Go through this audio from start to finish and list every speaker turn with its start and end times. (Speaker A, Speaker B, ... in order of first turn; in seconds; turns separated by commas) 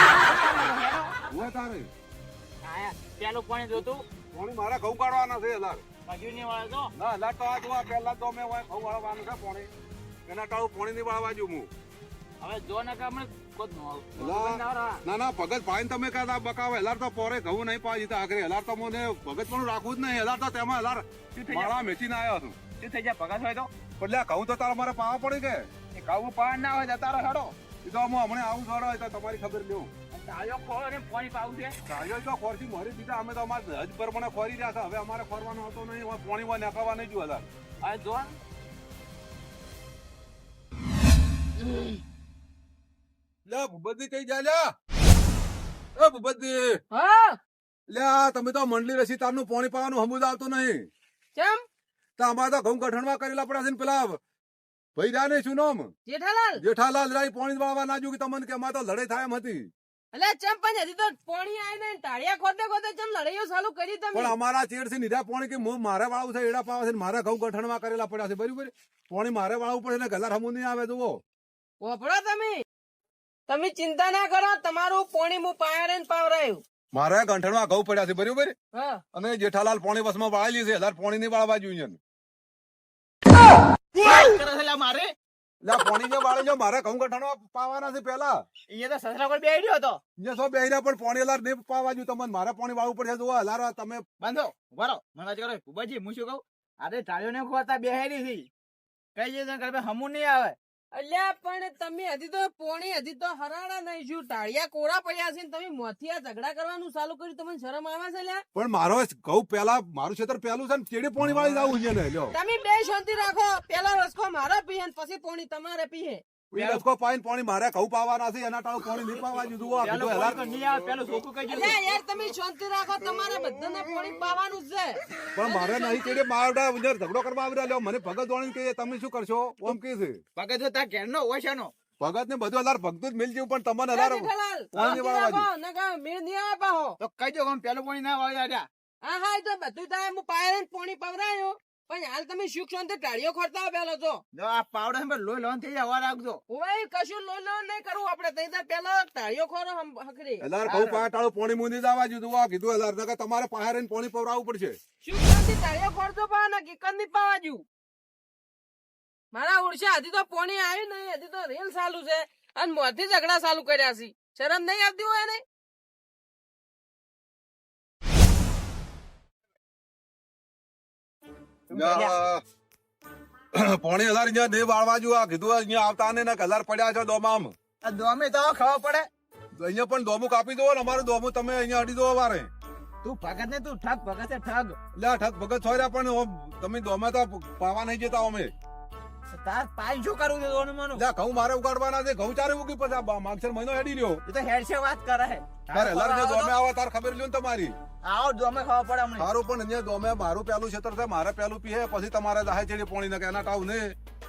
Speaker A: 0.2-1.2, Speaker B: 1.3-1.9, Speaker A: 2.6-4.0, Speaker B: 3.7-5.8, Speaker A: 6.1-6.9, Speaker B: 6.9-9.7, Speaker B: 10.3-11.7, Speaker A: 12.4-15.0, Speaker B: 14.2-22.7, Speaker A: 21.3-21.9, Speaker A: 22.8-23.7, Speaker B: 24.0-25.6, Speaker A: 25.9-27.6, Speaker B: 27.8-29.9, Speaker A: 30.1-31.8, Speaker B: 31.8-37.5, Speaker A: 37.8-38.4, Speaker B: 43.5-44.6, Speaker B: 46.0-46.8, Speaker C: 46.9-47.4, Speaker B: 47.9-50.8, Speaker C: 51.4-51.6, Speaker B: 52.2-54.2, Speaker B: 55.0-55.9, Speaker C: 56.0-56.6, Speaker B: 56.6-59.7, Speaker C: 60.1-64.3, Speaker B: 64.1-71.2, Speaker C: 71.8-72.6, Speaker C: 73.5-76.6, Speaker B: 76.9-78.5, Speaker C: 78.7-79.0, Speaker B: 79.1-82.0, Speaker A: 83.9-85.1, Speaker B: 85.6-88.3, Speaker A: 88.7-90.0, Speaker B: 90.2-94.0, Speaker A: 94.2-98.5, Speaker A: 99.2-100.5, Speaker C: 100.9-108.4, Speaker B: 108.5-112.3, Speaker A: 111.2-111.8, Speaker C: 112.3-116.2, Speaker B: 116.5-120.4, Speaker A: 116.5-116.8, Speaker A: 119.8-121.8, Speaker C: 121.5-126.2, Speaker B: 125.3-130.2, Speaker A: 130.3-131.7, Speaker B: 132.0-135.5, Speaker C: 133.9-137.0, Speaker A: 134.8-135.0, Speaker A: 137.0-138.7, Speaker C: 139.0-144.2, Speaker A: 144.3-146.4, Speaker C: 146.5-150.4, Speaker B: 150.4-154.8, Speaker A: 150.6-151.1, Speaker C: 155.0-157.6, Speaker C: 159.3-165.4, Speaker A: 171.7-172.2, Speaker B: 171.7-172.4, Speaker B: 173.5-177.5, Speaker A: 177.8-179.1, Speaker B: 179.6-182.5, Speaker A: 183.0-184.8, Speaker B: 184.9-188.5, Speaker A: 189.3-191.0, Speaker B: 190.9-194.2, Speaker A: 194.3-196.6, Speaker B: 195.7-197.7, Speaker A: 198.0-199.3, Speaker B: 199.2-203.9